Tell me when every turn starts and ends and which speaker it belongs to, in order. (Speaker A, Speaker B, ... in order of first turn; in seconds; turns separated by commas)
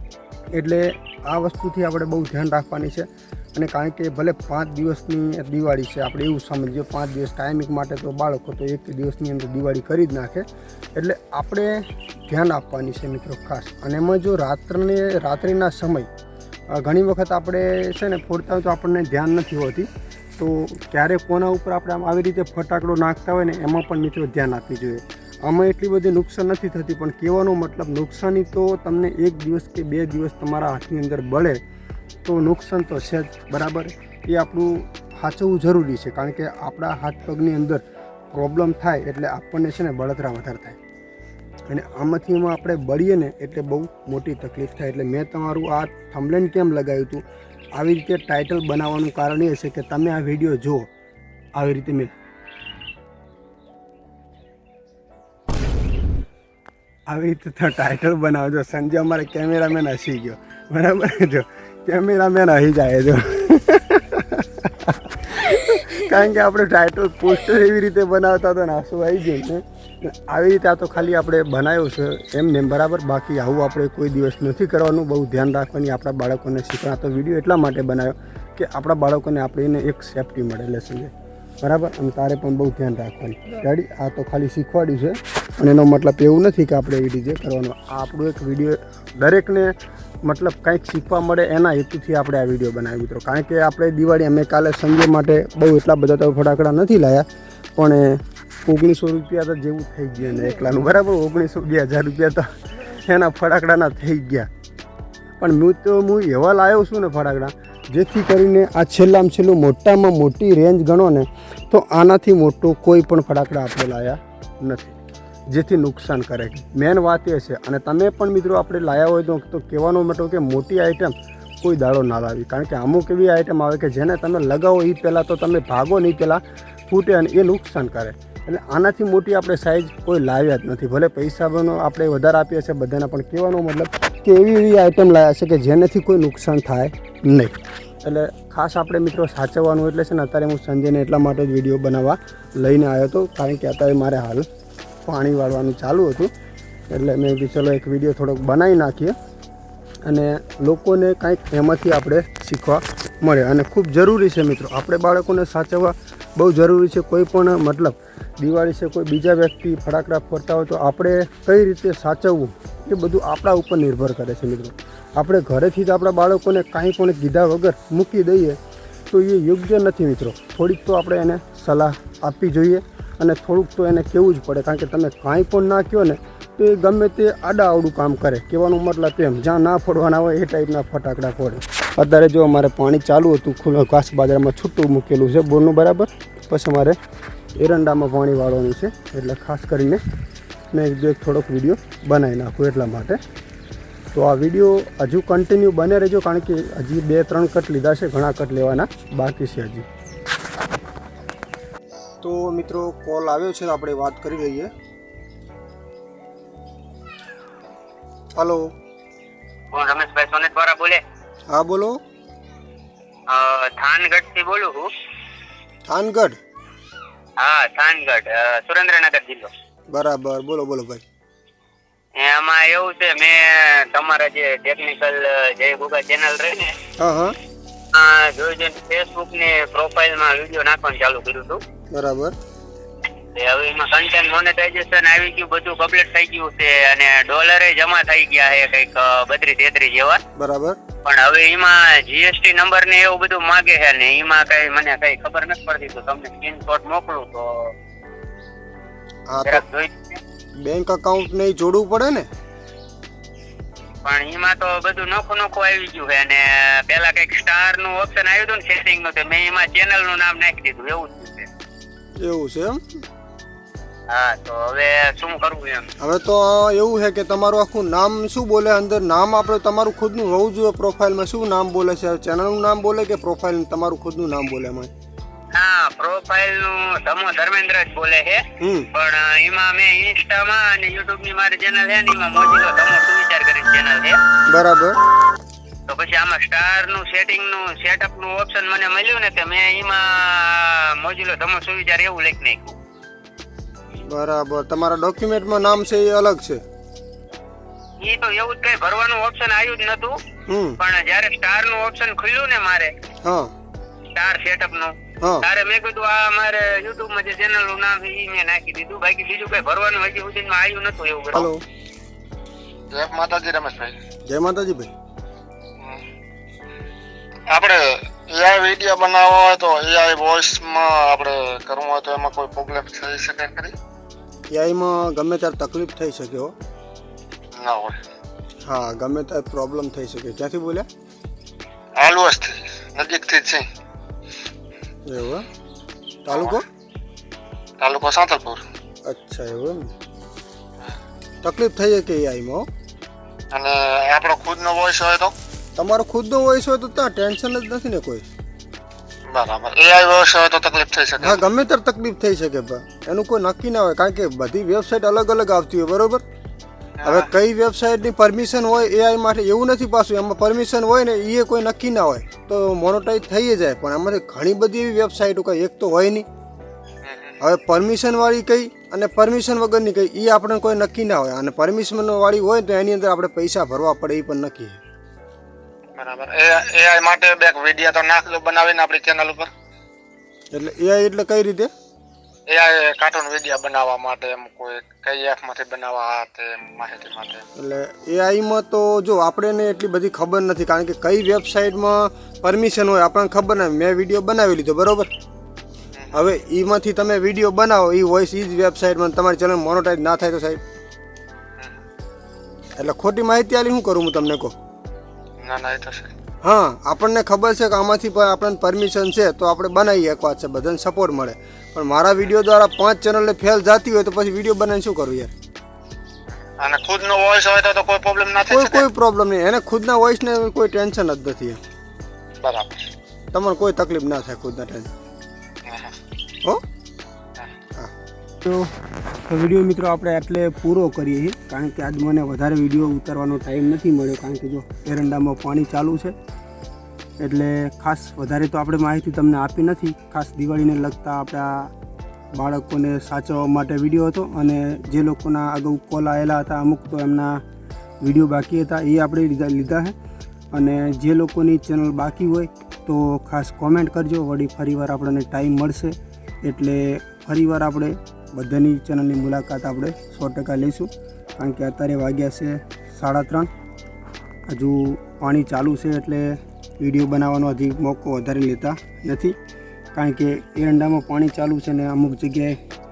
Speaker A: 0.5-16.1, Speaker A: 16.7-31.6, Speaker A: 32.2-40.8, Speaker A: 41.7-47.2, Speaker A: 47.7-50.9, Speaker A: 51.5-52.1, Speaker A: 57.1-104.5, Speaker A: 105.4-115.0, Speaker A: 115.5-144.5, Speaker A: 145.1-146.3, Speaker A: 146.9-149.2, Speaker A: 150.1-168.6, Speaker A: 169.1-187.0, Speaker A: 187.6-190.0, Speaker A: 190.7-193.2, Speaker A: 194.1-199.9, Speaker A: 202.2-204.7, Speaker A: 208.4-208.7, Speaker B: 209.7-211.0, Speaker A: 211.5-212.0, Speaker B: 213.3-214.9, Speaker A: 215.9-216.4, Speaker B: 217.4-219.5, Speaker A: 219.9-221.0, Speaker B: 222.2-226.8, Speaker A: 227.0-227.4, Speaker B: 227.9-231.6, Speaker A: 231.9-232.4, Speaker B: 233.3-240.2, Speaker A: 240.4-240.8, Speaker B: 241.1-247.7, Speaker A: 249.3-249.6, Speaker B: 249.4-250.2, Speaker A: 250.6-252.3, Speaker B: 254.1-261.5, Speaker A: 262.2-262.8, Speaker B: 264.1-265.9, Speaker A: 266.0-274.9, Speaker B: 275.5-284.2, Speaker A: 278.6-278.9, Speaker A: 284.5-285.0, Speaker B: 285.9-292.8, Speaker A: 294.0-296.6, Speaker B: 298.0-300.2, Speaker A: 300.5-300.8, Speaker B: 300.8-302.9, Speaker A: 303.2-303.5, Speaker B: 304.1-311.5, Speaker A: 305.2-305.5, Speaker A: 311.3-311.6, Speaker C: 312.9-314.0, Speaker A: 314.3-314.9, Speaker C: 315.8-316.1, Speaker C: 317.5-323.8, Speaker A: 324.5-326.6, Speaker C: 327.5-328.0, Speaker A: 328.6-330.9, Speaker C: 332.0-333.7, Speaker A: 335.1-335.5, Speaker A: 336.2-336.6, Speaker C: 336.3-336.6, Speaker C: 337.8-338.6, Speaker A: 339.1-339.9, Speaker A: 341.4-342.7, Speaker C: 343.5-345.4, Speaker A: 345.8-348.3, Speaker C: 349.3-351.4, Speaker A: 351.2-356.2, Speaker C: 357.0-357.3, Speaker A: 357.0-366.3, Speaker C: 367.0-367.4, Speaker A: 367.4-374.8, Speaker C: 375.9-379.5, Speaker A: 380.5-381.7, Speaker C: 382.5-387.5, Speaker A: 387.6-395.1, Speaker C: 395.9-396.2, Speaker A: 396.1-400.6, Speaker C: 401.6-401.8, Speaker A: 402.8-404.5, Speaker C: 405.4-406.1, Speaker A: 406.4-415.3, Speaker C: 416.4-418.9, Speaker A: 418.5-421.6, Speaker C: 422.4-422.9, Speaker A: 423.3-424.9, Speaker C: 425.6-426.0, Speaker A: 427.8-428.7, Speaker A: 429.3-436.1, Speaker A: 437.2-441.7, Speaker A: 442.3-447.4, Speaker A: 448.0-449.9, Speaker A: 450.5-463.5, Speaker A: 464.5-469.4, Speaker A: 469.9-472.6